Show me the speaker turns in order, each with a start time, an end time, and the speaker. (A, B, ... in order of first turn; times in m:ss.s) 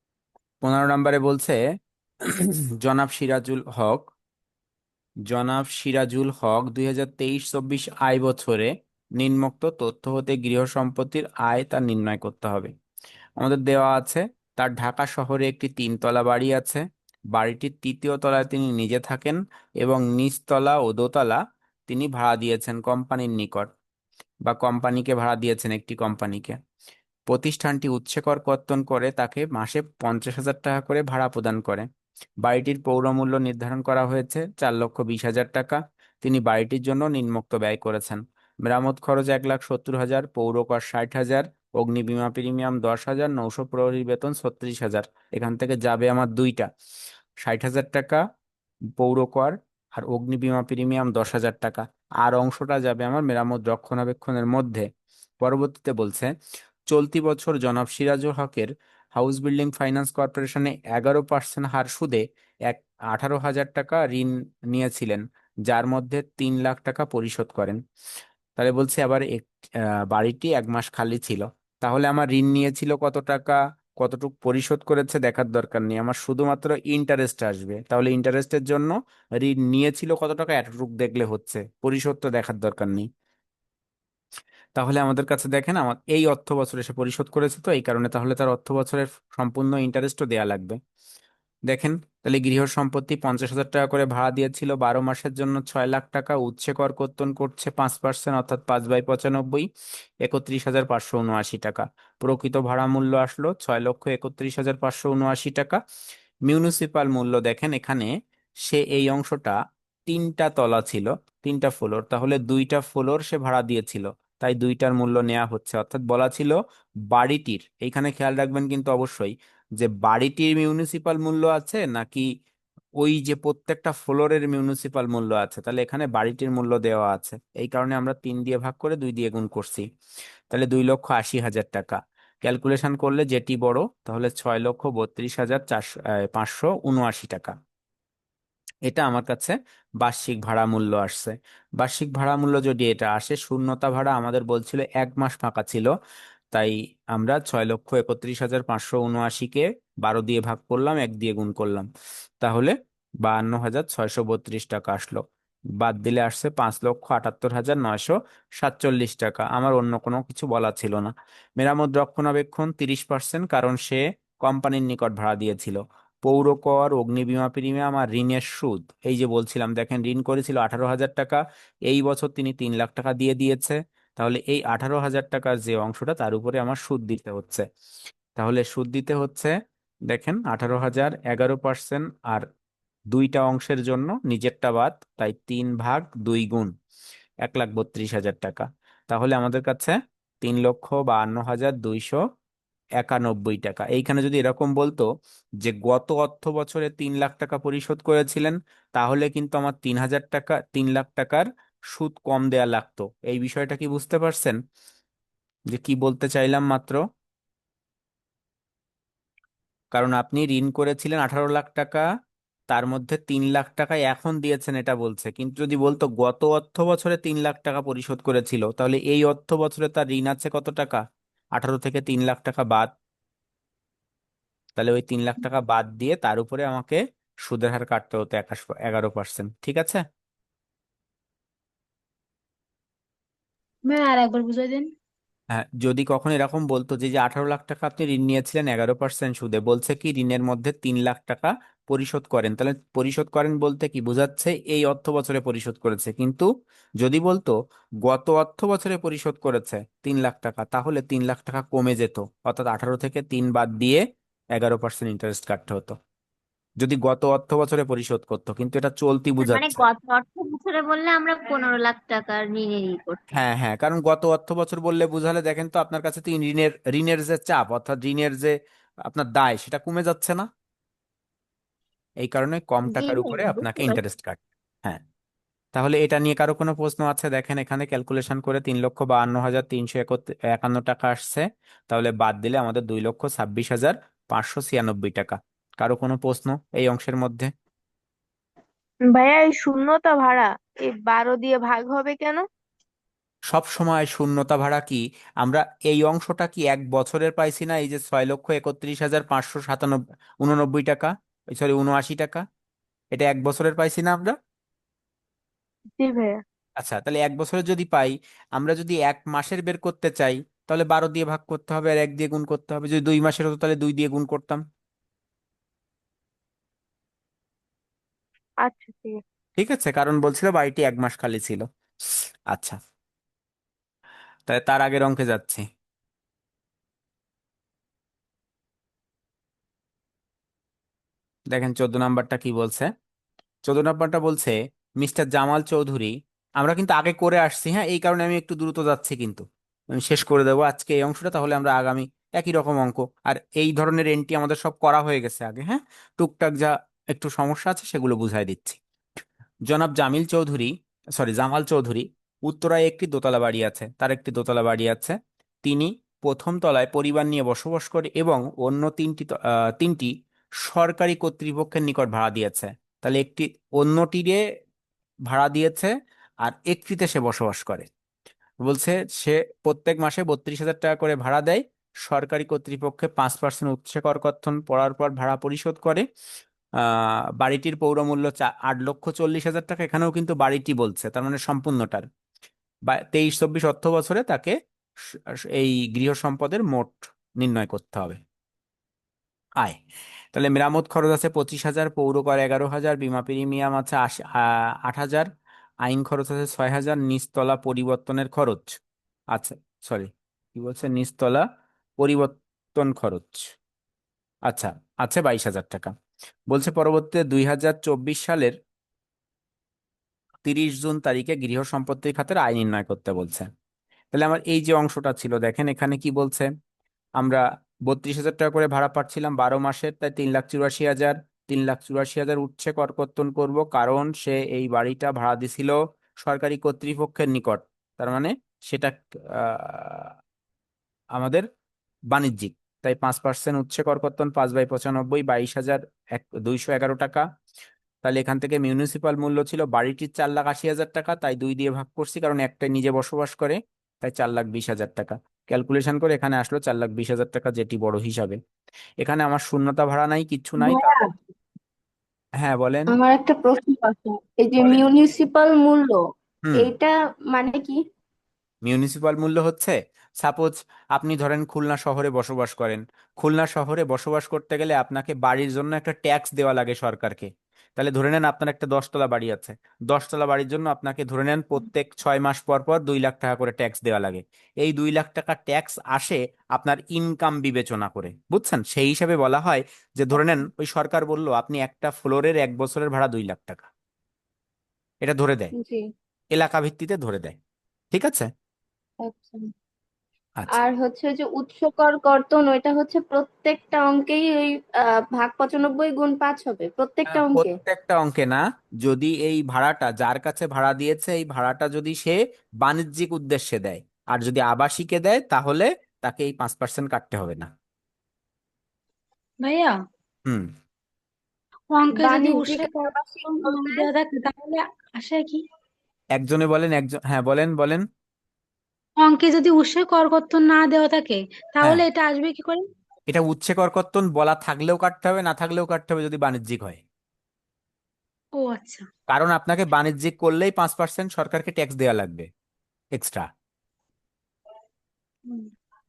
0:00.6-0:01.6 A
0:02.2-0:04.1 A
0:05.3-0:12.7 A
0:13.4-0:16.8 A
0:17.3-0:23.7 A
0:24.4-0:26.6 A
0:27.3-0:31.9 A
0:32.4-0:46.7 A
0:47.4-0:48.2 A
0:49.0-0:54.9 A
0:55.4-0:56.3 A
0:56.9-1:07.8 A
1:08.6-1:23.1 A
1:24.8-1:30.8 A
1:31.7-1:39.7 A
1:40.2-1:45.8 A
1:46.5-1:48.1 A
1:48.6-1:49.5 A
1:50.1-1:56.6 A
1:57.1-2:02.3 A
2:03.0-2:09.8 A
2:10.5-2:17.5 A
2:18.9-2:25.9 A
2:26.5-2:31.9 A
2:32.4-2:35.2 A
2:35.8-2:57.6 A
2:58.4-2:59.5 A
3:00.1-3:02.4 A
3:03.1-3:06.7 A
3:07.4-3:12.2 A
3:13.0-3:15.0 A
3:15.6-3:24.6 A
3:25.7-3:27.0 A
3:29.9-3:32.0 A
3:32.7-3:41.0 A
3:41.6-3:42.9 A
3:44.8-3:50.0 A
3:53.9-3:54.9 B
3:55.5-4:06.5 A
4:07.0-4:14.0 A
4:14.5-4:16.0 A
4:16.8-4:19.8 A
4:19.4-4:23.3 C
4:23.3-4:28.5 A
4:29.0-4:30.5 A
4:32.2-4:35.0 A
4:35.7-4:47.5 A
4:49.1-4:52.4 D
4:53.5-5:02.4 A
5:03.1-5:04.4 A
5:06.0-5:06.4 D
5:06.8-5:14.6 A
5:18.6-5:19.2 D
5:19.6-5:21.6 A
5:22.5-5:22.8 A
5:24.5-5:25.6 A
5:31.5-5:32.9 A
5:33.6-5:48.8 A
5:49.7-6:00.1 A
6:00.6-6:04.4 A
6:05.3-6:07.9 A
6:08.6-6:16.0 A
6:16.8-6:22.0 A
6:22.9-6:24.5 A
6:25.1-6:28.2 A
6:30.3-6:35.3 A
6:35.8-6:38.8 A
6:39.3-6:41.4 A
6:42.0-6:43.5 A
6:44.5-6:45.9 A
6:46.5-6:48.5 A
6:50.4-6:53.5 A
6:54.1-6:56.5 A
6:57.2-7:10.1 A
7:11.2-7:11.5 A
7:12.1-7:17.2 A
7:18.0-7:28.4 A
7:29.0-7:30.9 A
7:30.6-7:31.1 E
7:32.4-7:32.9 A
7:32.9-7:36.0 E
7:36.6-7:37.8 E
7:38.6-8:03.7 A
8:05.0-8:05.5 A
8:06.3-8:07.4 A
8:07.9-8:08.3 A
8:09.0-8:09.4 E
8:10.5-8:17.5 E
8:17.1-8:27.5 A
8:29.4-8:29.7 B
8:31.7-8:32.7 B
8:31.9-8:33.9 E
8:33.4-8:35.4 B
8:36.2-8:37.8 A
8:39.0-8:42.6 B
8:43.1-8:46.8 A
8:48.4-8:48.9 B
8:49.1-8:52.3 A
8:52.9-8:53.3 A